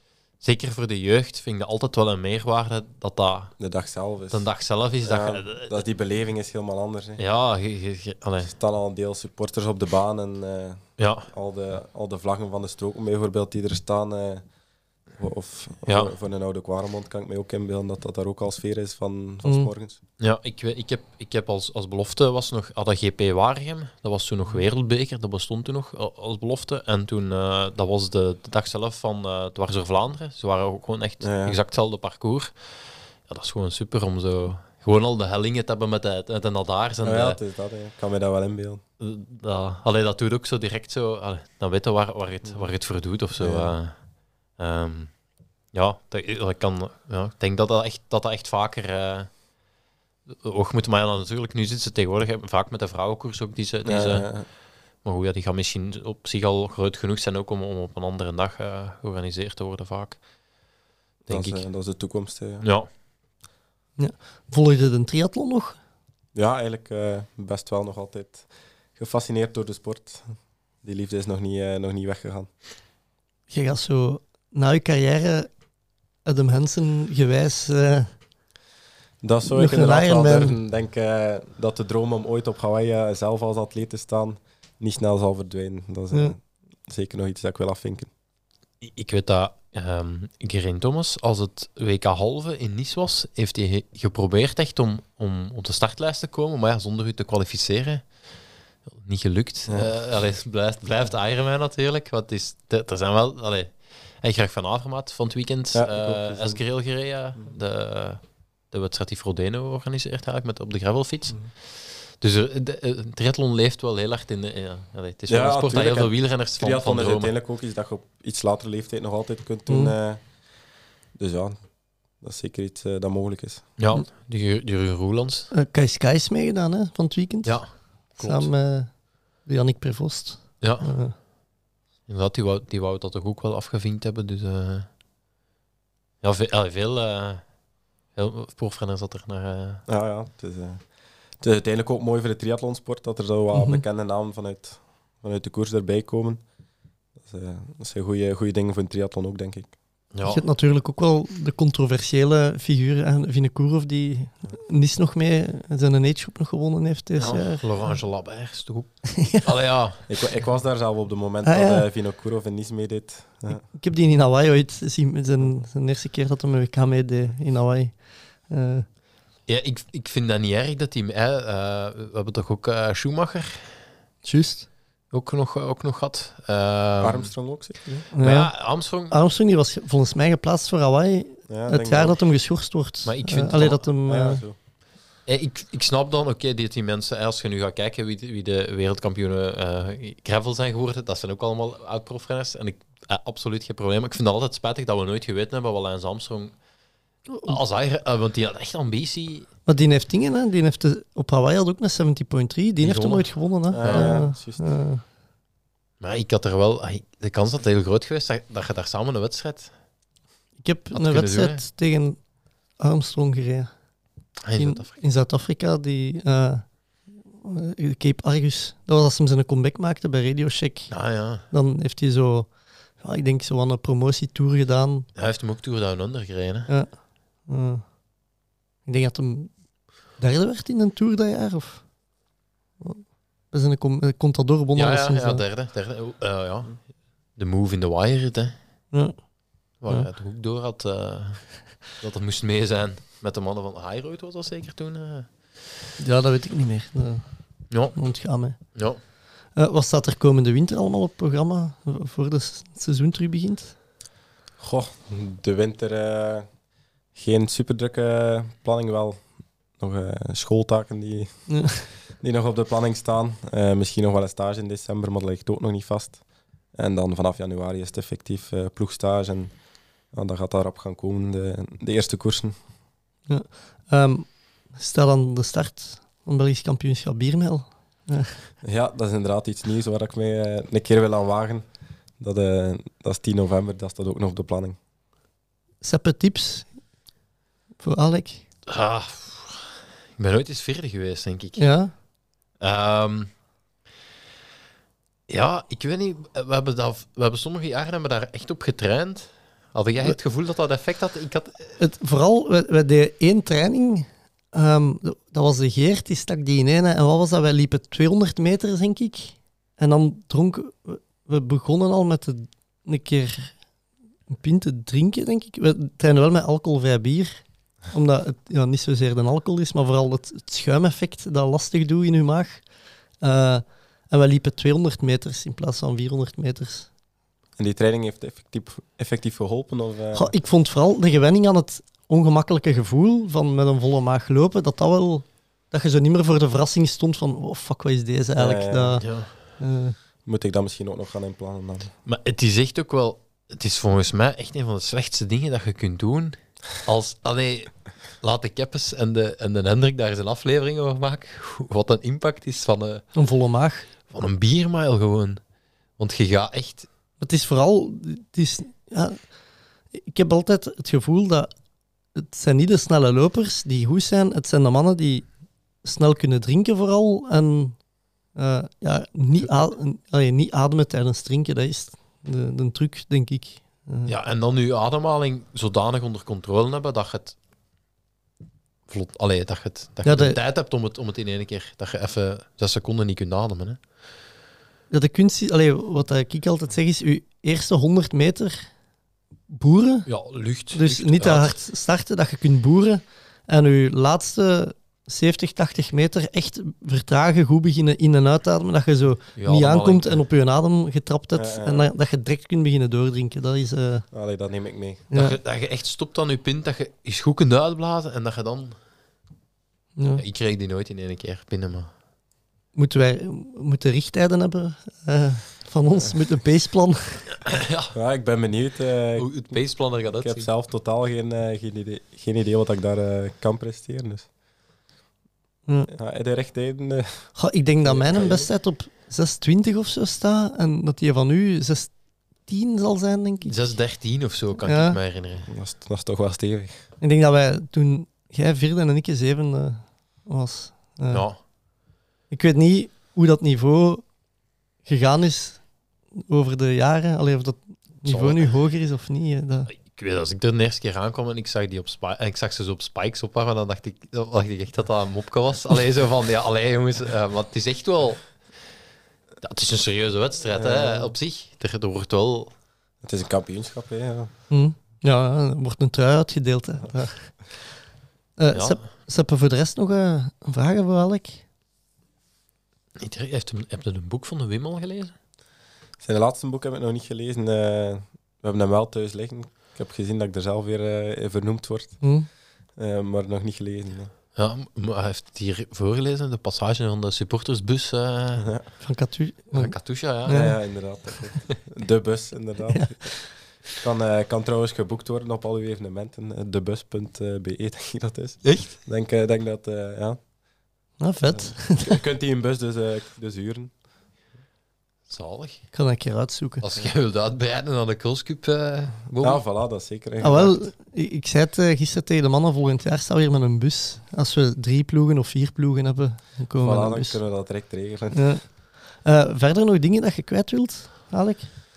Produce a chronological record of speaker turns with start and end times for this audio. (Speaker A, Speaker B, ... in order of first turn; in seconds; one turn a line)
Speaker A: 0.4-3.6
Speaker B: 3.6-4.5
Speaker A: 4.3-5.8
Speaker B: 5.0-7.2
Speaker A: 7.2-8.5
Speaker B: 8.4-14.4
Speaker A: 11.0-11.3
Speaker B: 15.2-20.0
Speaker A: 15.9-16.1
Speaker C: 19.4-19.7
Speaker A: 20.2-37.4
Speaker B: 31.2-31.6
Speaker B: 37.0-38.8
Speaker A: 39.0-45.2
Speaker B: 43.4-43.8
Speaker A: 45.7-49.4
Speaker A: 50.3-54.4
Speaker B: 53.9-54.5
Speaker A: 55.0-60.2
Speaker A: 61.3-61.6
Speaker B: 61.3-62.7
Speaker A: 62.6-62.9
Speaker C: 64.0-65.8
Speaker B: 66.3-72.5
Speaker C: 73.5-75.5
Speaker C: 76.2-78.2
Speaker B: 79.2-88.1
Speaker C: 79.5-80.6
Speaker A: 88.8-98.3
Speaker A: 98.9-117.3
Speaker B: 99.7-99.9
Speaker B: 105.7-106.6
Speaker B: 115.3-120.2
Speaker C: 119.7-119.9
Speaker B: 121.2-123.8
Speaker A: 123.8-125.5
Speaker C: 125.5-131.2
Speaker A: 127.5-128.5
Speaker A: 130.6-131.0
Speaker A: 132.1-134.9
Speaker A: 136.2-137.5
Speaker A: 138.1-139.8
Speaker B: 139.9-140.9
Speaker B: 141.4-146.4
Speaker C: 143.5-143.8
Speaker B: 147.2-149.7
Speaker A: 150.1-150.4
Speaker C: 150.2-157.6
Speaker A: 157.2-160.1
Speaker C: 159.2-159.5
Speaker B: 160.1-163.7
Speaker C: 161.4-161.9
Speaker C: 163.7-168.9
Speaker A: 169.5-173.9
Speaker C: 174.2-174.7
Speaker A: 175.1-177.4
Speaker B: 177.0-178.1
Speaker C: 178.1-184.4
Speaker A: 178.2-179.2
Speaker B: 181.5-182.2
Speaker A: 183.1-183.9
Speaker B: 184.1-184.6
Speaker A: 185.3-196.6
Speaker C: 197.3-197.6
Speaker A: 197.4-199.5
Speaker C: 199.7-205.0
Speaker A: 202.8-204.3
Speaker B: 203.7-204.8
Speaker A: 206.0-209.7
Speaker C: 210.6-212.2
Speaker A: 210.9-211.6
Speaker C: 212.8-225.1
Speaker A: 214.4-215.0
Speaker A: 220.9-221.5
Speaker A: 225.2-226.7
Speaker C: 226.7-228.0
Speaker C: 228.9-231.9
Speaker C: 232.8-235.4
Speaker A: 234.8-238.6
Speaker C: 238.9-240.1
Speaker A: 239.8-245.6
Speaker C: 246.0-253.8
Speaker A: 247.7-249.0
Speaker B: 254.6-256.5
Speaker B: 257.1-266.2
Speaker C: 261.5-261.9
Speaker B: 266.7-269.6
Speaker B: 270.1-272.6
Speaker C: 273.3-278.4
Speaker B: 278.6-284.8
Speaker C: 285.8-286.8
Speaker C: 287.8-288.5
Speaker A: 288.7-292.0
Speaker C: 291.6-291.9
Speaker A: 292.6-293.3
Speaker A: 295.3-301.8
Speaker C: 301.8-313.6
Speaker C: 314.3-326.9
Speaker B: 327.6-330.3
Speaker C: 330.1-340.0
Speaker B: 338.4-339.1
Speaker A: 339.0-339.4
Speaker B: 340.2-341.9
Speaker A: 342.1-353.1
Speaker C: 353.1-353.9
Speaker A: 354.1-355.4
Speaker A: 356.0-356.9
Speaker C: 357.2-359.3
Speaker C: 359.9-361.5
Speaker C: 362.1-374.1
Speaker A: 374.1-377.4
Speaker A: 378.9-383.8
Speaker C: 380.1-380.4
Speaker C: 384.9-388.7
Speaker C: 389.5-390.1
Speaker A: 390.1-391.6
Speaker C: 390.7-404.1
Speaker A: 399.4-400.2
Speaker B: 401.3-401.9
Speaker B: 404.1-405.1
Speaker A: 405.1-408.8
Speaker C: 410.0-410.2
Speaker A: 410.2-411.9
Speaker C: 412.7-417.3
Speaker A: 417.4-417.9
Speaker B: 417.9-424.3
Speaker A: 419.2-420.5
Speaker C: 425.7-425.9
Speaker B: 425.9-428.5
Speaker C: 427.4-433.6
Speaker A: 433.4-435.5
Speaker C: 434.7-435.0
Speaker B: 435.5-436.8
Speaker C: 437.0-441.5
Speaker A: 441.1-441.4
Speaker C: 442.3-444.1
Speaker C: 444.8-445.7
Speaker C: 446.2-449.7
Speaker A: 448.0-448.5
Speaker A: 449.7-458.4
Speaker A: 459.4-462.5
Speaker B: 460.5-461.1
Speaker B: 463.0-464.3
Speaker C: 464.5-467.6
Speaker C: 468.4-471.4
Speaker A: 468.5-468.9
Speaker A: 473.0-475.2
Speaker B: 476.0-482.2
Speaker C: 482.0-482.3
Speaker B: 482.7-484.1
Speaker A: 484.4-488.7
Speaker B: 488.4-488.6
Speaker C: 488.8-491.0
Speaker A: 489.5-490.5
Speaker B: 490.3-500.2
Speaker C: 492.7-493.1
Speaker A: 498.4-498.8
Speaker C: 501.0-502.0
Speaker B: 501.2-503.7
Speaker A: 505.1-505.7
Speaker C: 505.7-506.6
Speaker A: 506.6-509.4
Speaker B: 509.2-510.6
Speaker C: 510.2-517.4
Speaker B: 516.6-518.4
Speaker C: 518.1-521.5